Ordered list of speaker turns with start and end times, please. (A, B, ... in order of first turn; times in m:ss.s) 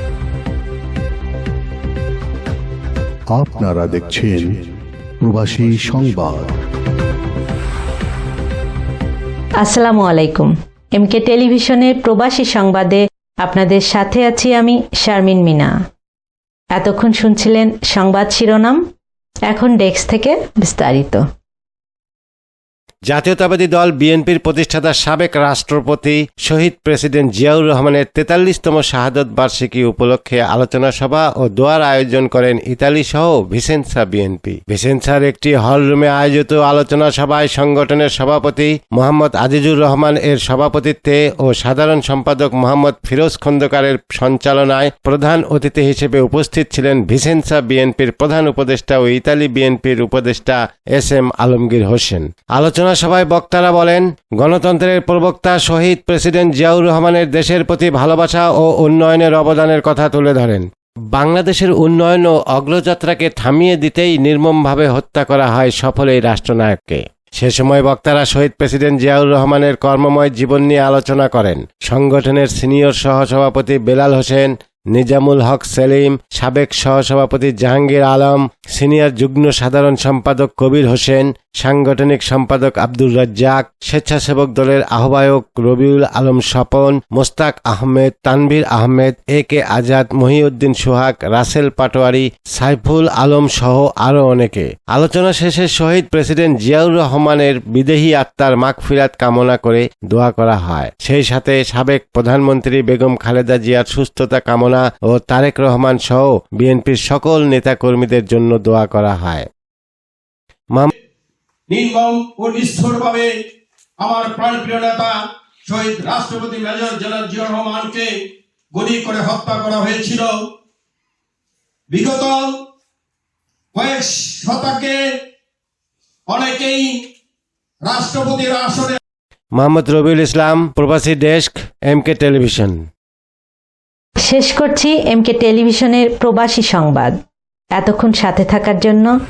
0:03.3-0:04.7 A
0:05.2-0:06.6 A
0:09.6-0:15.7 B
0:16.7-0:18.8 B
0:19.5-0:21.2 B
0:23.1-1:49.5 C
1:51.7-1:53.3 D
1:54.0-1:58.1 D
1:58.7-2:00.4 D
2:01.9-2:02.5 D
2:03.7-2:05.0 D
2:06.3-2:06.9 D
2:07.8-2:09.0 D
2:09.6-2:12.8 C
2:14.2-2:17.1 B
2:17.8-2:19.1 B